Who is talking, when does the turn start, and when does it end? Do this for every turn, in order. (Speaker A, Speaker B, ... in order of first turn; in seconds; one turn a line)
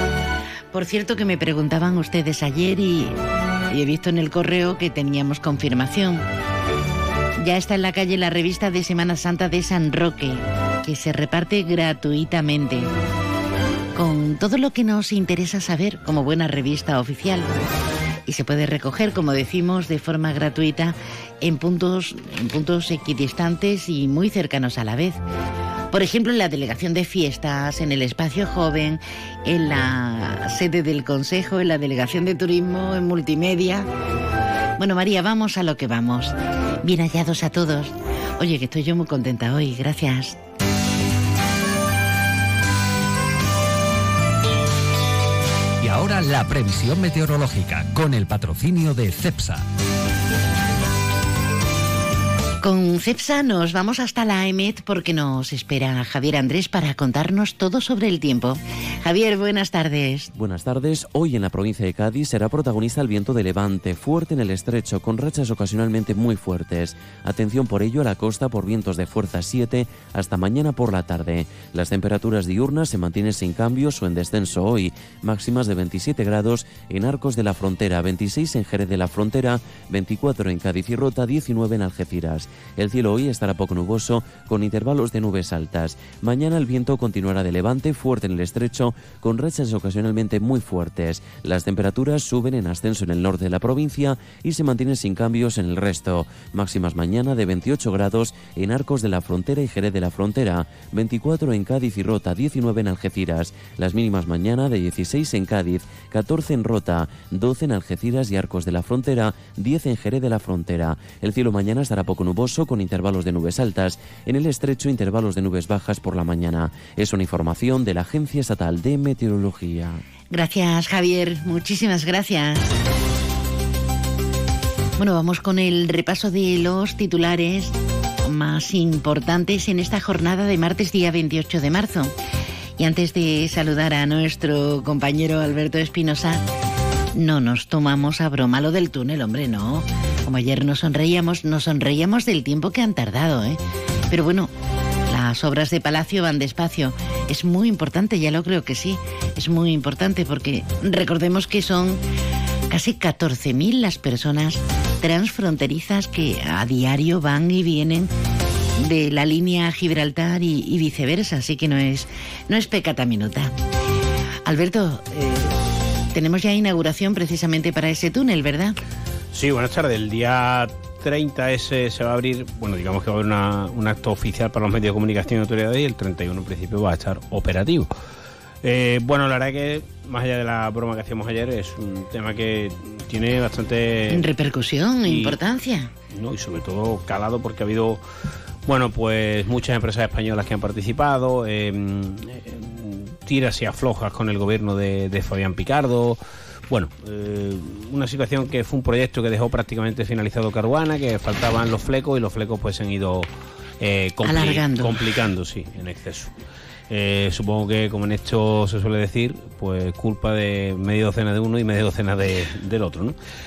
Speaker A: 0.7-3.1
Speaker A: 3.7-6.3
Speaker A: 7.4-12.9
Speaker A: 13.9-17.6
Speaker A: 18.3-25.2
Speaker A: 25.9-33.9
Speaker A: 34.8-40.4
Speaker B: 45.8-49.6
Speaker A: 52.6-60.3
Speaker C: 60.4-120.0
Speaker A: 120.3-122.7
Speaker A: 125.0-132.1
Speaker A: 132.8-136.4
Speaker A: 137.1-144.5
Speaker A: 145.1-152.0
Speaker A: 152.7-158.1
Speaker A: 158.8-163.6
Speaker A: 164.4-165.6
Speaker A: 166.1-168.8
Speaker D: 169.3-177.9
Speaker D: 178.6-184.3
Speaker A: 184.1-185.9
Speaker D: 185.1-185.4
Speaker D: 186.1-188.0
Speaker D: 188.7-203.3
Speaker D: 203.8-206.3
Speaker A: 204.2-205.0
Speaker D: 206.9-213.2